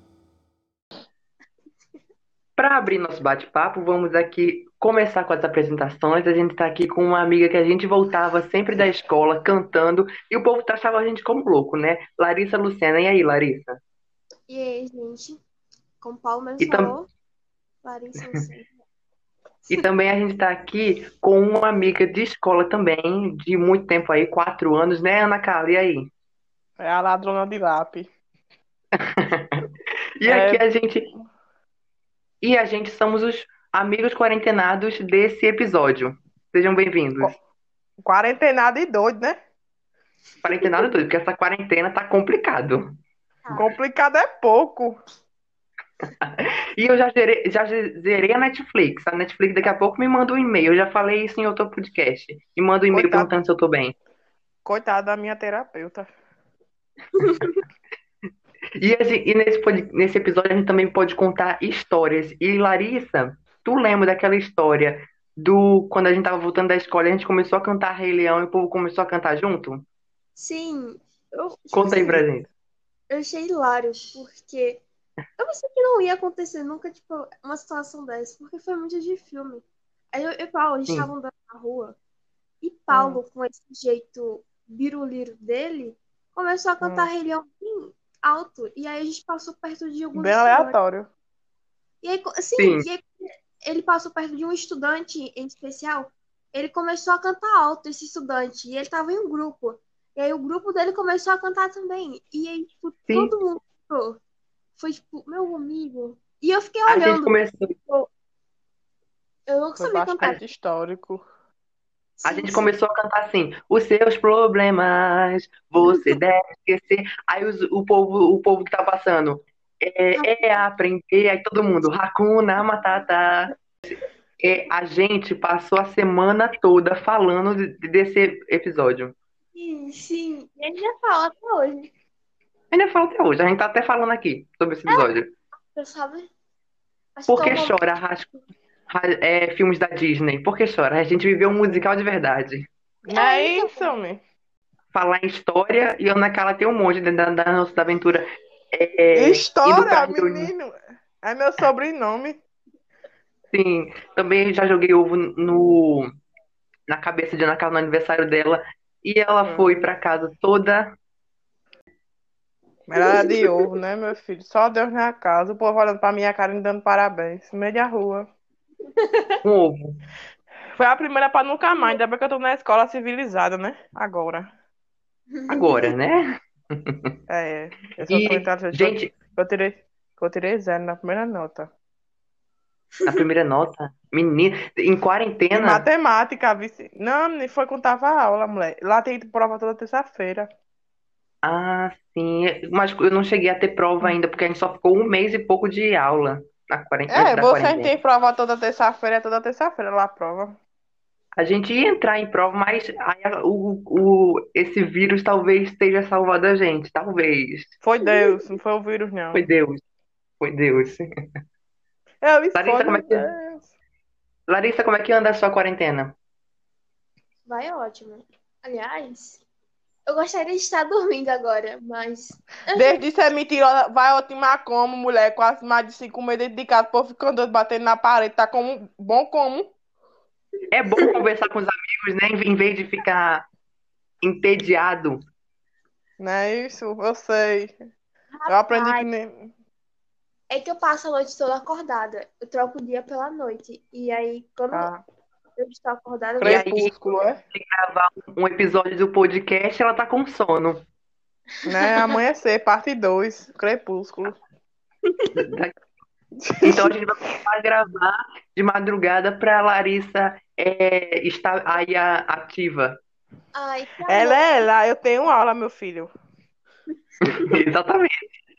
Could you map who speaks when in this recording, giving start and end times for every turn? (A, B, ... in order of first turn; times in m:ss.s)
0:02.6-0:13.8 A
0:14.5-0:15.4 B
0:16.0-0:17.1 B
0:16.6-0:16.9 A
0:17.8-0:18.7 B
0:19.7-0:26.1 A
0:26.8-0:28.1 C
0:28.9-0:29.6 A
0:30.2-0:31.1 A
0:30.2-0:30.6 C
0:32.4-0:37.3 A
0:38.0-0:39.4 C
0:40.4-0:43.0 A
0:43.5-0:45.0 C
0:46.2-0:53.9 A
0:52.9-0:53.3 C
0:54.6-0:56.1 C
0:57.2-0:57.5 B
0:58.8-1:09.8 A
1:10.4-1:12.2 B
1:11.7-1:12.5 A
1:13.1-1:14.8 B
1:15.4-1:22.0 B
1:22.6-1:30.8 B
1:22.9-1:23.2 C
1:26.8-1:27.1 C
1:30.2-1:31.1 C
1:32.0-1:44.2 B
1:32.6-1:32.9 A
1:44.8-1:48.1 B
1:46.9-1:47.7 A
1:49.5-1:50.4 B
1:49.8-1:51.2 C
1:52.2-1:52.7 B
1:52.2-2:03.5 A
1:55.8-1:56.2 B
2:00.2-2:00.6 B
2:04.4-2:09.1 A
2:09.5-2:11.9 B
2:12.7-2:15.3 A
2:14.9-2:15.1 B
2:15.7-2:16.3 B
2:17.2-2:17.8 B
2:17.3-2:18.3 A
2:18.9-2:22.7 A
2:23.0-2:24.2 C
2:23.1-2:23.9 B
2:24.9-2:30.5 A
2:29.1-2:32.4 C
2:33.5-2:36.1 A
2:36.9-2:40.9 A
2:39.4-2:39.7 C
2:42.9-2:48.3 C
2:43.0-2:43.5 B
2:49.0-2:49.4 B
2:49.4-2:50.0 A
2:50.7-2:54.5 C
2:55.3-2:55.9 B
2:55.5-2:57.1 A
2:57.3-3:01.7 C
2:58.0-2:59.1 A
3:03.0-3:05.8 A
3:05.5-3:10.5 C
3:11.4-3:17.9 A
3:17.1-3:20.6 C
3:21.4-3:27.7 A
3:27.8-3:29.4 C
3:28.0-3:28.3 B
3:29.3-3:29.8 A
3:30.4-3:31.1 A
3:32.2-3:33.7 C
3:32.5-3:33.2 A
3:34.5-3:36.1 A
3:37.5-3:39.4 B
3:40.1-3:43.0 B
3:42.7-3:49.7 C
3:50.7-3:53.4 A
3:54.2-3:55.2 A
3:56.2-3:57.7 C
3:58.3-3:59.1 B
3:58.5-3:59.5 C
4:00.5-4:04.9 B
4:04.7-4:05.0 C
4:05.6-4:06.8 B
4:06.4-4:07.4 C
4:06.4-4:06.9 A
4:07.5-4:10.8 A
4:11.6-4:14.4 C
4:15.3-4:15.7 A
4:16.4-4:16.9 C
4:16.6-4:23.0 A
4:23.5-4:24.6 B
4:24.1-4:26.1 C
4:27.3-4:28.2 A